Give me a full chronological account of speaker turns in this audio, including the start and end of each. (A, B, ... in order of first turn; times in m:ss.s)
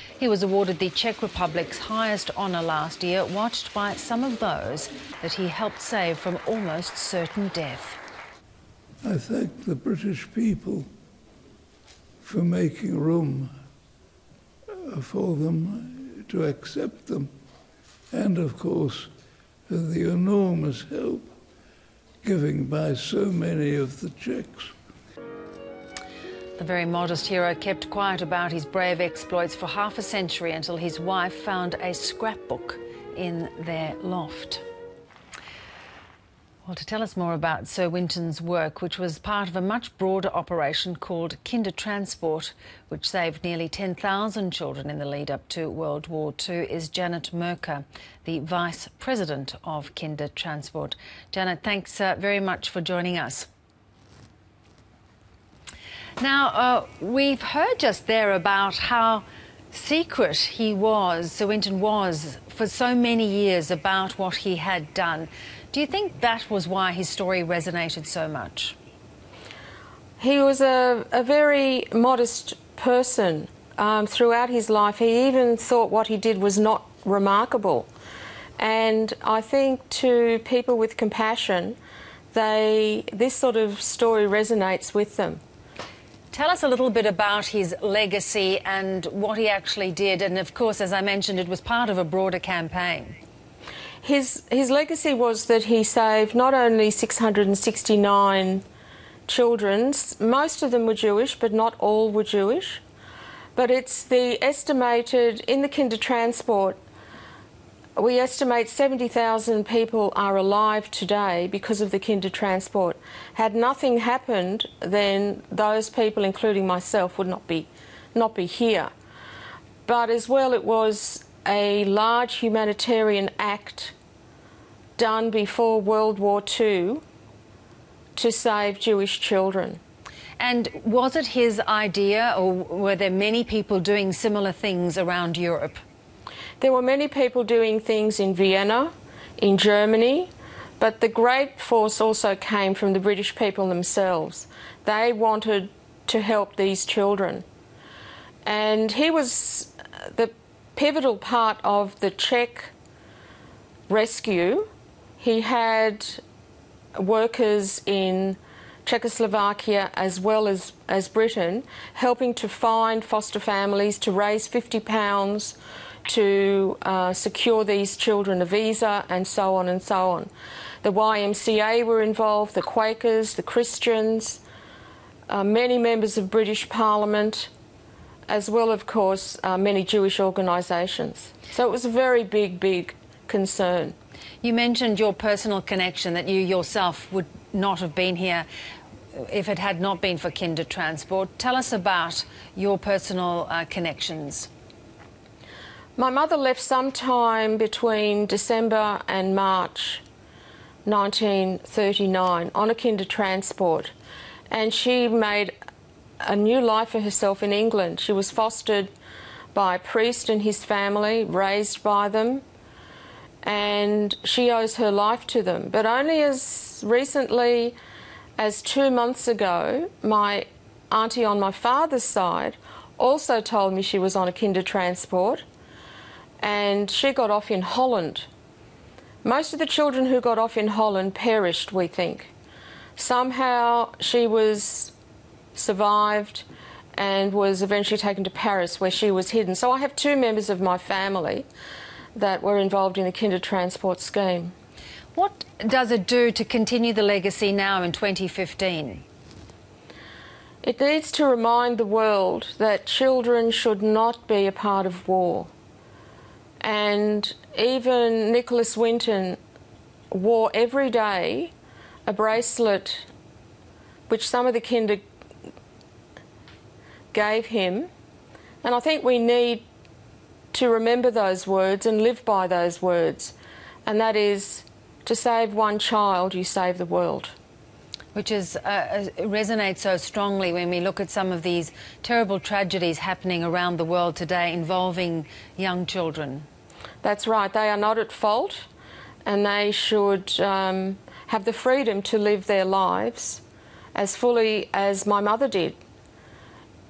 0:00.2-0:08.0 A
0:09.0-0:10.9 B
0:12.2-0:13.5 B
0:14.9-0:17.3 B
0:18.1-0:19.1 B
0:19.7-0:21.3 B
0:22.2-0:24.7 B
0:26.6-0:34.6 A
0:36.6-0:53.5 A
0:56.2-1:08.8 A
1:10.2-1:17.9 C
1:18.6-1:21.8 C
1:22.3-1:25.4 C
1:26.3-1:33.2 A
1:34.0-1:38.6 C
1:39.3-1:42.8 C
1:43.6-1:46.8 C
1:48.0-1:58.9 C
1:59.9-2:03.9 C
2:05.0-2:07.0 C
2:08.2-2:09.8 C
2:10.4-2:15.8 A
2:16.6-2:27.4 C
2:28.5-2:32.7 C
2:33.9-2:34.7 C
2:35.2-2:36.2 C
2:37.0-2:50.3 C
2:50.8-2:54.4 C
2:55.3-2:57.5 C
2:58.3-3:04.0 C
3:04.4-3:08.5 A
3:09.1-3:14.5 A
3:16.0-3:20.0 C
3:20.8-3:23.9 C
3:24.5-3:25.5 C
3:26.2-3:28.9 C
3:29.6-3:32.4 C
3:33.4-3:37.8 C
3:38.4-3:45.4 C
3:46.4-3:48.3 C
3:49.2-3:52.3 C
3:53.0-3:54.9 C
3:55.6-3:56.4 C
3:57.0-4:01.5 C
4:02.2-4:04.5 C
4:05.2-4:09.0 A
4:10.6-4:15.5 C
4:16.6-4:19.4 C
4:20.1-4:21.5 C
4:22.1-4:23.1 C
4:24.1-4:25.0 C
4:27.1-4:27.9 C
4:28.6-4:29.7 C
4:30.5-4:33.3 C
4:33.9-4:37.3 C
4:38.1-4:46.5 A
4:47.0-4:48.7 C
4:49.3-4:53.4 C
4:54.0-4:55.8 C